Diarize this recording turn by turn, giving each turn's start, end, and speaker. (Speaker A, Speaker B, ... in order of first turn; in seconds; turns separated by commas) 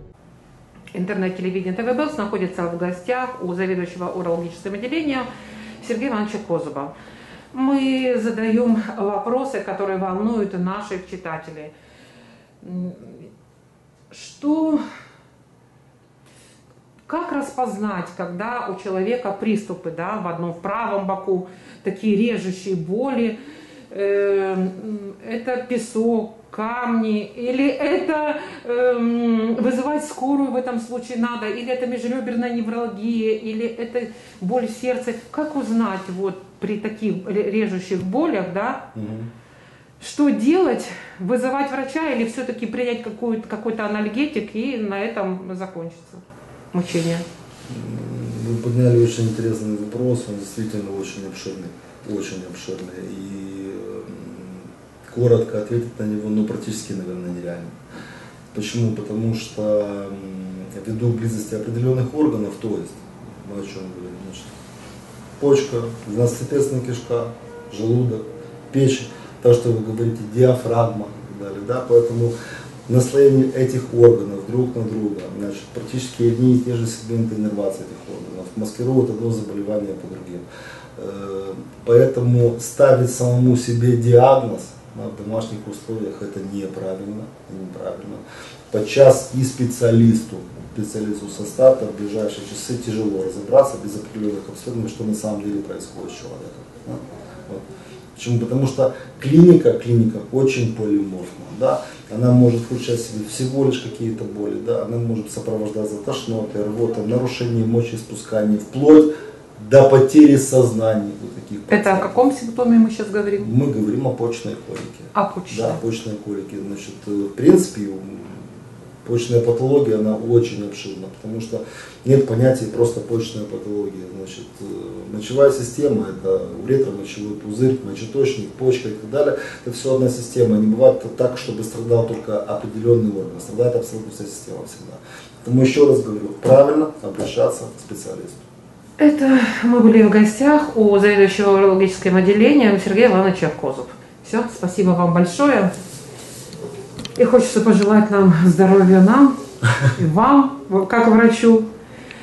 Speaker A: 0.9-5.3, Speaker A: 5.8-6.9, Speaker A: 7.5-11.7, Speaker A: 12.6-13.3, Speaker A: 14.1-14.8, Speaker A: 17.1-23.4, Speaker A: 23.9-38.9, Speaker B: 38.9-39.3, Speaker A: 40.0-46.2, Speaker A: 46.7-47.2, Speaker B: 47.7-57.8, Speaker B: 58.5-64.5, Speaker B: 65.4-72.3, Speaker B: 72.9-80.4, Speaker B: 81.0-97.6, Speaker B: 98.2-112.2, Speaker A: 111.7-113.5, Speaker B: 113.4-118.5, Speaker A: 115.1-115.8, Speaker B: 119.0-138.4, Speaker A: 139.0-145.7, Speaker A: 147.2-151.7